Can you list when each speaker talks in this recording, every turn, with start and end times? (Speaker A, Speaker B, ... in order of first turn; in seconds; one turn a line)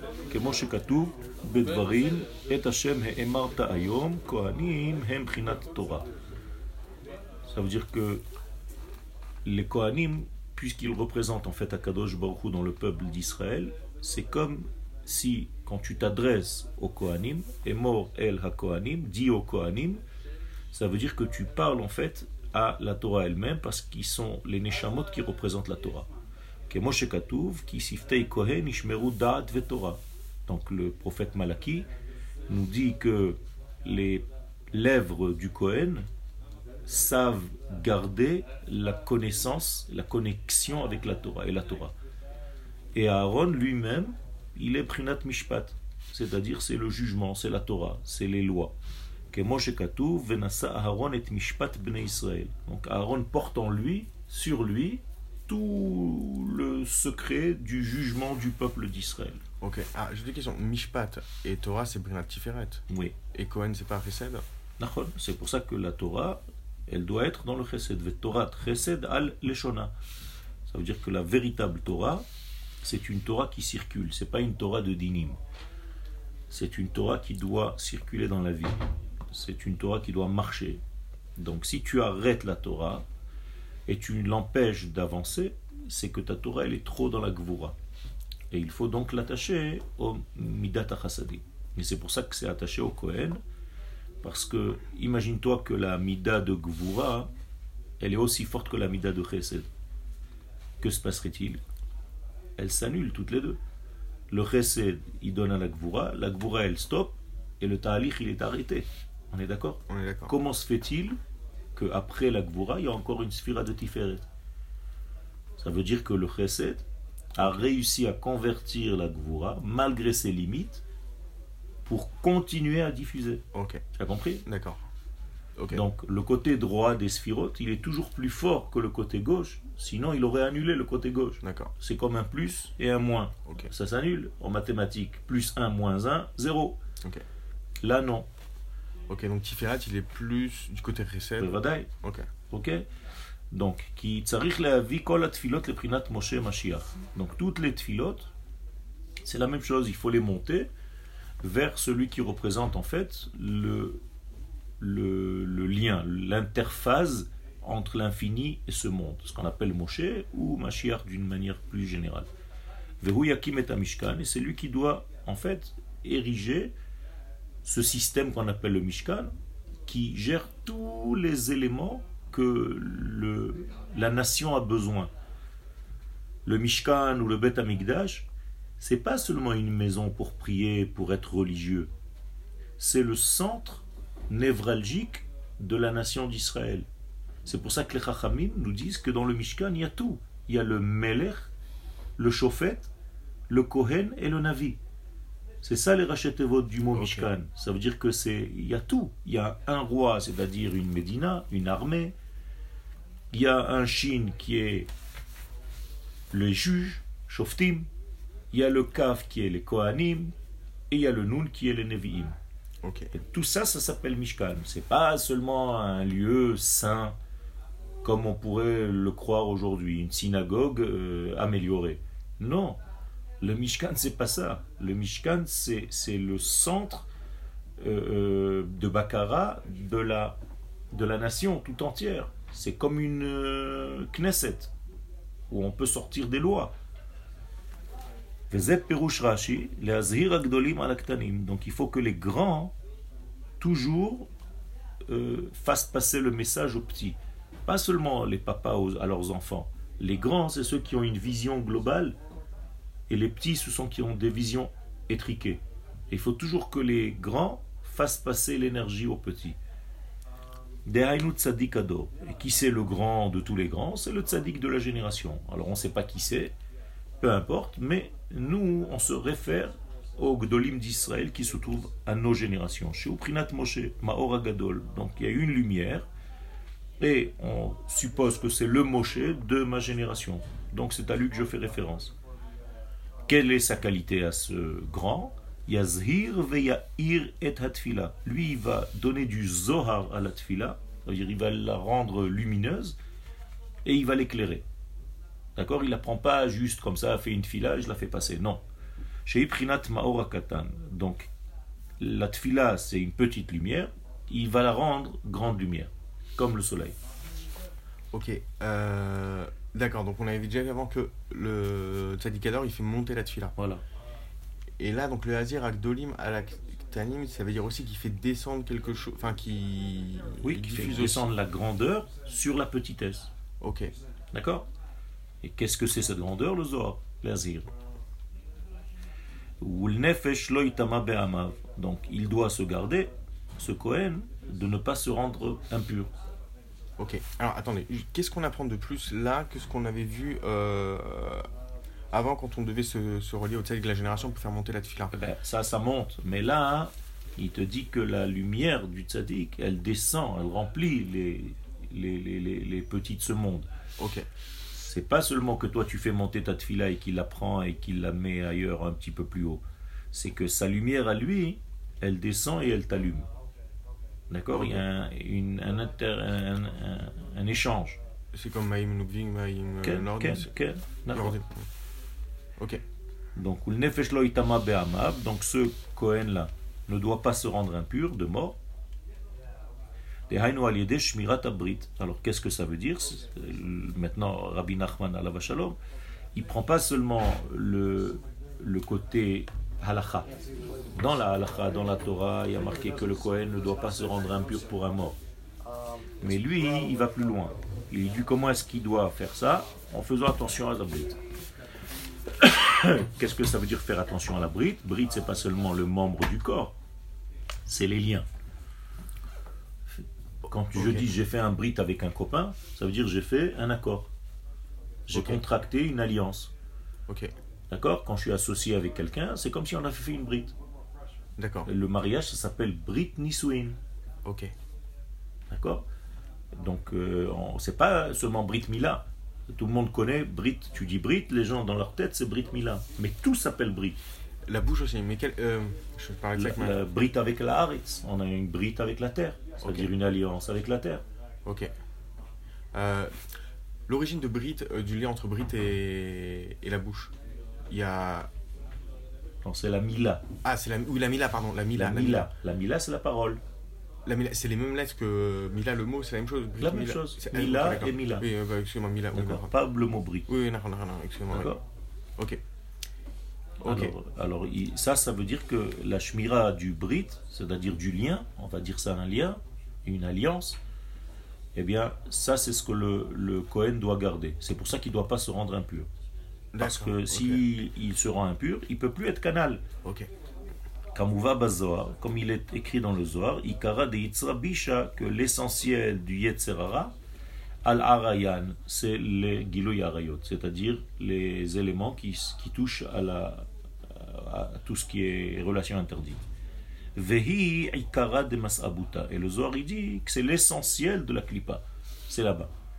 Speaker A: 0.3-6.0
Speaker A: 7.5-8.2
Speaker A: 9.4-20.0
Speaker A: 20.7-26.1
Speaker A: 26.7-31.9
Speaker A: 32.5-36.0
Speaker A: 36.9-41.9
Speaker A: 42.9-48.7
Speaker A: 49.3-59.4
Speaker B: 59.6-62.8
Speaker A: 62.9-63.1
Speaker B: 63.3-64.4
Speaker A: 64.8-69.9
Speaker A: 70.7-72.2
Speaker A: 72.8-75.4
Speaker A: 76.5-80.8
Speaker A: 81.4-83.0
Speaker A: 83.9-87.7
Speaker A: 88.5-93.4
Speaker A: 94.2-97.3
Speaker A: 98.0-99.7
Speaker A: 100.8-101.6
Speaker A: 102.6-103.6
Speaker A: 104.3-111.2
Speaker B: 109.9-110.3
Speaker A: 111.7-114.3
Speaker A: 115.6-120.8
Speaker A: 121.8-123.4
Speaker B: 123.5-123.8
Speaker A: 123.9-124.4
Speaker B: 124.5-124.8
Speaker B: 125.6-125.8
Speaker A: 125.7-136.8
Speaker B: 131.4-131.7
Speaker A: 137.8-138.3
Speaker B: 139.1-142.2
Speaker A: 141.4-141.9
Speaker A: 142.5-142.9
Speaker A: 143.5-148.3
Speaker A: 149.2-150.7
Speaker A: 151.4-154.0
Speaker A: 154.8-162.3
Speaker A: 163.0-166.7
Speaker A: 167.6-169.3
Speaker A: 169.8-175.1
Speaker A: 176.4-178.3
Speaker A: 178.8-181.9
Speaker A: 182.8-186.8
Speaker A: 187.4-191.5
Speaker A: 192.2-192.9
Speaker A: 193.5-194.8
Speaker A: 195.6-202.1
Speaker B: 196.9-197.3
Speaker A: 203.3-204.9
Speaker A: 206.3-207.9
Speaker A: 208.5-210.3
Speaker A: 210.9-212.3
Speaker B: 212.8-213.1
Speaker A: 213.1-217.1
Speaker A: 218.0-222.8
Speaker A: 223.4-227.1
Speaker A: 227.8-230.4
Speaker A: 230.9-234.7
Speaker A: 235.5-236.7
Speaker A: 238.5-242.7
Speaker A: 243.6-244.3
Speaker A: 245.1-252.2
Speaker A: 253.1-259.6
Speaker A: 260.8-266.5
Speaker A: 267.2-276.1
Speaker A: 277.0-282.1
Speaker A: 283.3-292.9
Speaker A: 293.8-294.6
Speaker A: 295.6-298.6
Speaker A: 299.2-301.3
Speaker A: 302.0-306.9
Speaker B: 308.1-313.5
Speaker A: 313.6-313.8
Speaker B: 314.8-321.3
Speaker A: 320.4-323.3
Speaker B: 323.6-323.9
Speaker A: 324.3-324.6
Speaker A: 325.4-327.7
Speaker A: 329.6-336.1
Speaker B: 337.0-341.4
Speaker B: 342.1-345.2
Speaker A: 345.1-353.7
Speaker B: 354.0-354.2
Speaker A: 354.7-363.3
Speaker A: 364.3-368.0
Speaker B: 364.5-364.8
Speaker B: 368.3-370.5
Speaker A: 369.8-371.4
Speaker B: 371.1-371.7
Speaker A: 373.4-378.6
Speaker A: 380.3-385.8
Speaker A: 386.3-390.3
Speaker A: 390.9-395.2
Speaker A: 396.2-401.2
Speaker A: 402.4-406.7
Speaker A: 407.6-408.2
Speaker A: 410.0-414.1
Speaker B: 410.7-411.1
Speaker A: 415.1-416.5
Speaker B: 415.1-415.4
Speaker A: 417.7-420.5
Speaker B: 421.4-421.7
Speaker A: 421.6-423.8
Speaker B: 424.2-424.5
Speaker A: 425.5-425.8
Speaker A: 426.5-434.0
Speaker B: 434.4-436.8
Speaker A: 436.4-441.0
Speaker B: 439.6-439.9
Speaker B: 441.4-441.7
Speaker B: 442.7-443.3
Speaker B: 443.9-447.1
Speaker B: 447.7-448.3
Speaker A: 449.4-450.2
Speaker B: 450.4-452.3
Speaker A: 451.7-453.4
Speaker B: 454.0-459.6
Speaker A: 456.6-458.2
Speaker A: 459.1-460.3
Speaker B: 460.3-461.5
Speaker A: 461.3-461.6
Speaker A: 463.6-470.6
Speaker B: 463.6-463.9
Speaker A: 471.5-475.9
Speaker B: 476.5-477.5
Speaker A: 476.6-479.6
Speaker A: 480.9-486.9
Speaker A: 487.6-496.2
Speaker A: 496.9-502.5